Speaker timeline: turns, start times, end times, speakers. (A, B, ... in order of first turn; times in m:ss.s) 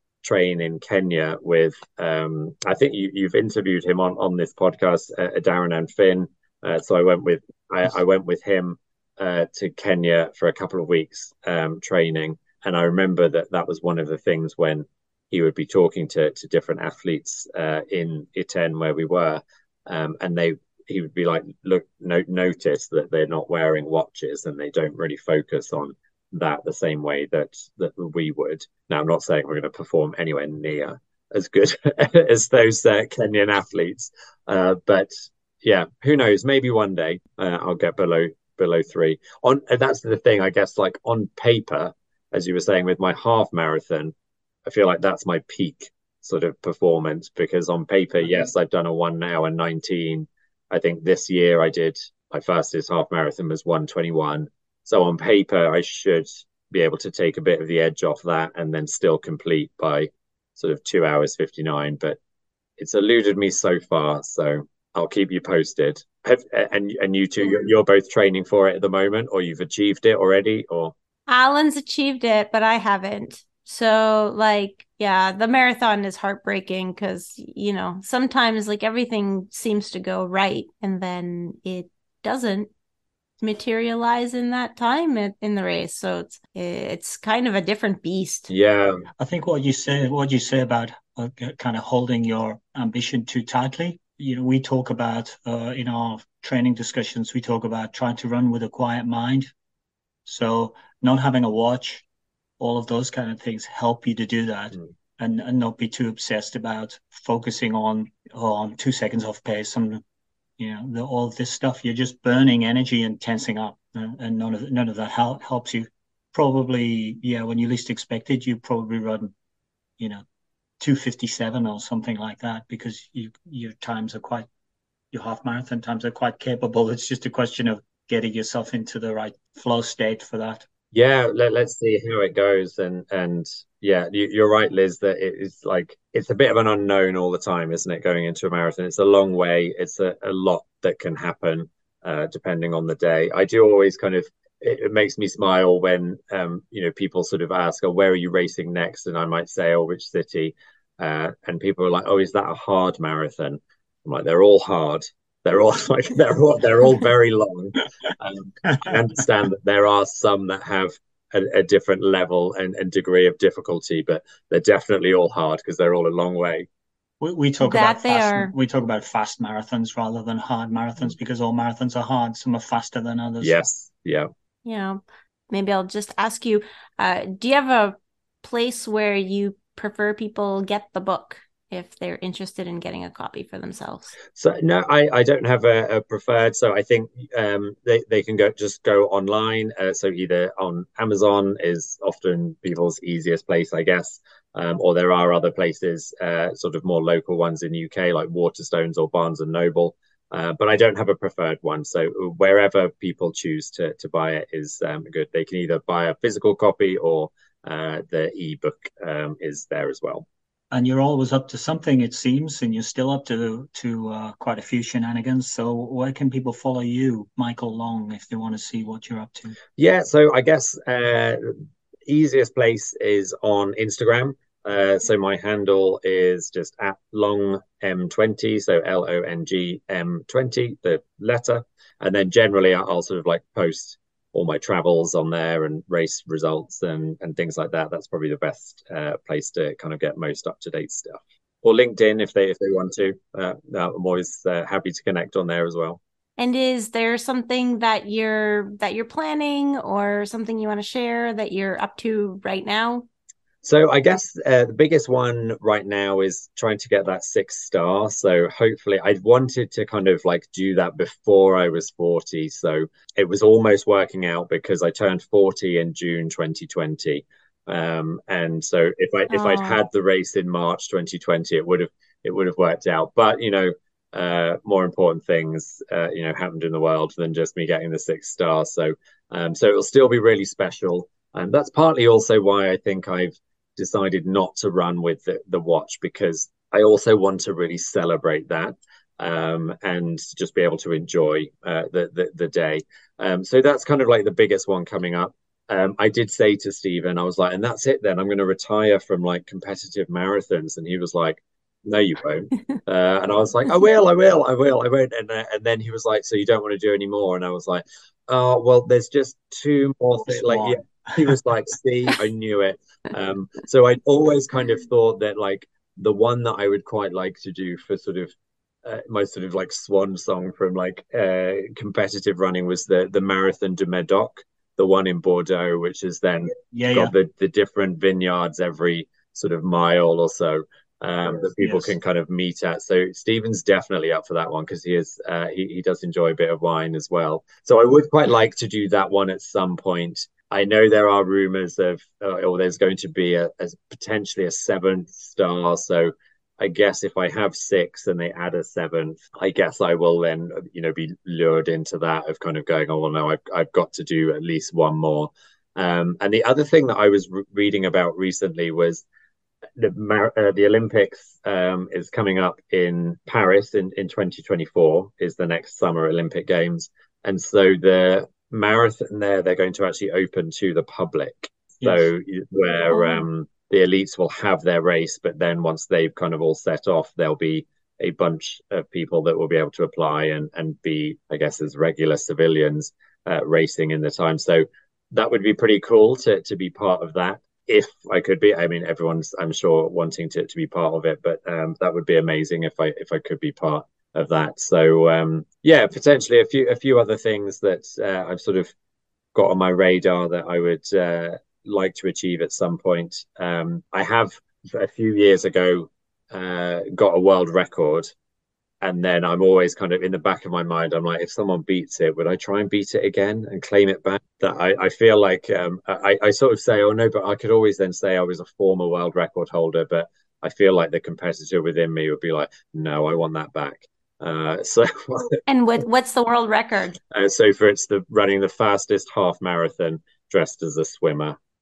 0:00.2-0:44.1 A
0:44.6-1:02.2 A
1:02.8-1:10.9 A
1:11.3-1:22.7 B
1:23.4-1:28.5 B
1:28.5-1:29.0 A
1:29.2-1:39.5 C
1:40.2-1:42.0 C
1:42.6-1:50.0 C
1:50.6-1:59.3 C
2:00.8-2:04.5 C
2:05.1-2:10.6 C
2:10.9-2:46.7 A
2:47.2-2:53.6 C
2:47.6-2:48.5 B
2:53.4-2:54.3 A
2:54.6-3:04.2 B
3:04.3-3:30.2 A
3:30.7-3:39.6 C
3:39.8-3:41.5 A
3:42.1-4:06.0 A
4:06.4-4:13.0 B
4:13.6-5:18.3 A
4:29.3-4:29.8 B
5:10.2-5:11.1 C
5:18.8-5:59.0 A
5:26.7-5:27.1 C
5:31.6-5:31.9 C
5:59.8-6:38.7 A
6:11.8-6:12.1 C
6:12.9-6:13.2 B
6:39.3-6:48.1 A
6:48.8-7:05.4 A
7:05.5-7:07.0 B
7:07.1-7:11.4 A